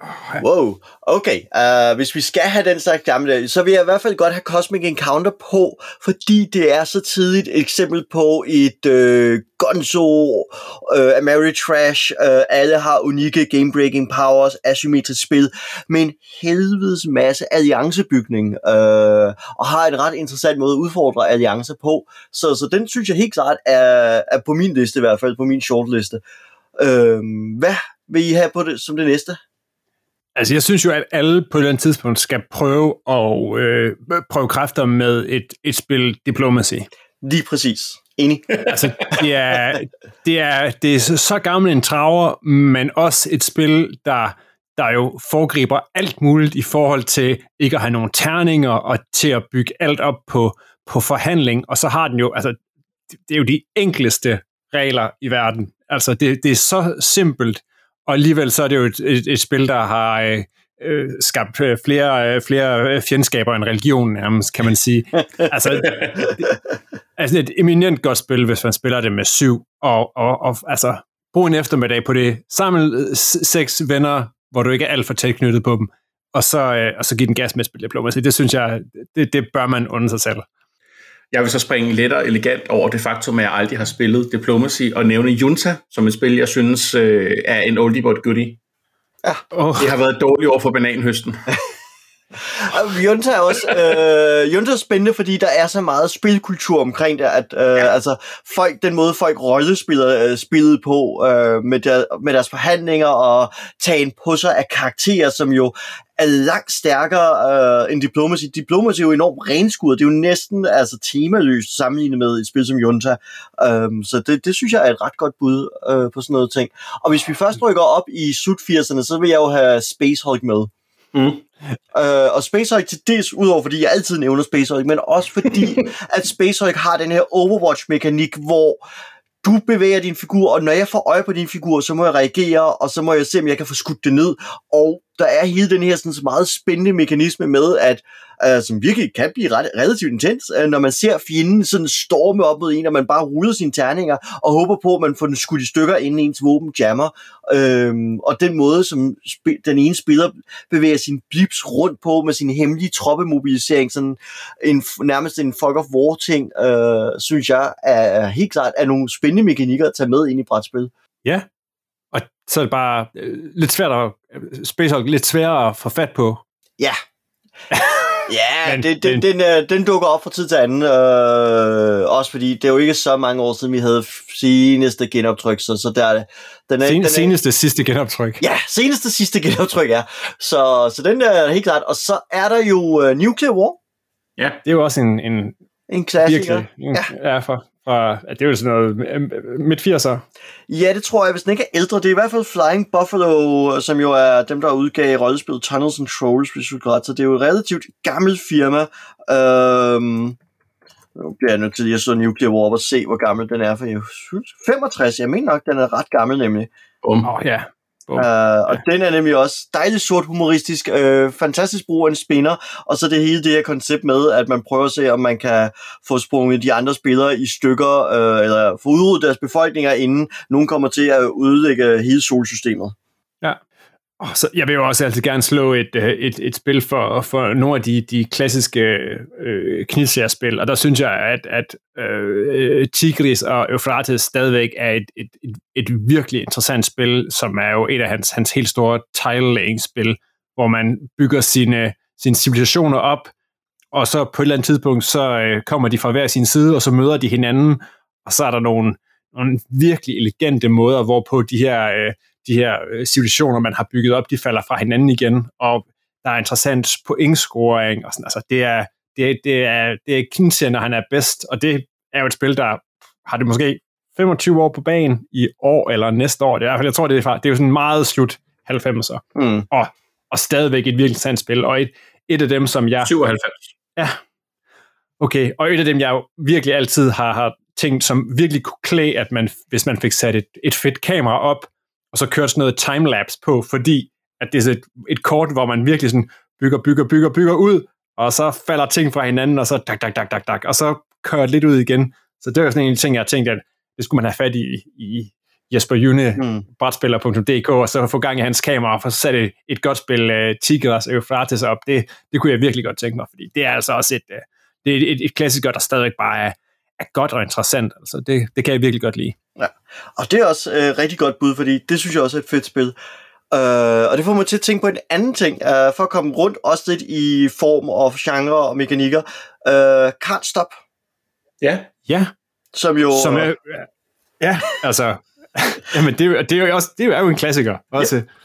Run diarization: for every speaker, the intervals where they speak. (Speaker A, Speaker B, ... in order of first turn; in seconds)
Speaker A: 0.4-26.2, 26.8-29.4, 37.2-38.6, 92.5-120.7, 121.9-128.8, 129.4-160.9, 168.3-177.3, 178.4-183.8, 185.9-187.1, 190.7-200.4, 201.1-206.7, 208.2-222.9, 269.3-269.7, 296.4-296.6, 309.6-312.9, 313.5-320.7, 322.7-323.5
Speaker B: 30.4-36.9, 38.7-52.6, 53.2-66.4, 67.2-80.5, 89.5-89.9, 162.1-166.4, 167.7-169.2, 176.8-178.4, 184.6-185.5, 186.2-190.2, 207.2-208.8, 224.2-243.3, 243.9-273.1, 275.2-309.4, 322.1-322.3, 323.1-323.9, 324.4-328.3
Speaker C: 81.3-88.6, 89.8-91.5, 121.1-121.4, 207.0-207.3, 273.0-273.7, 321.6-321.9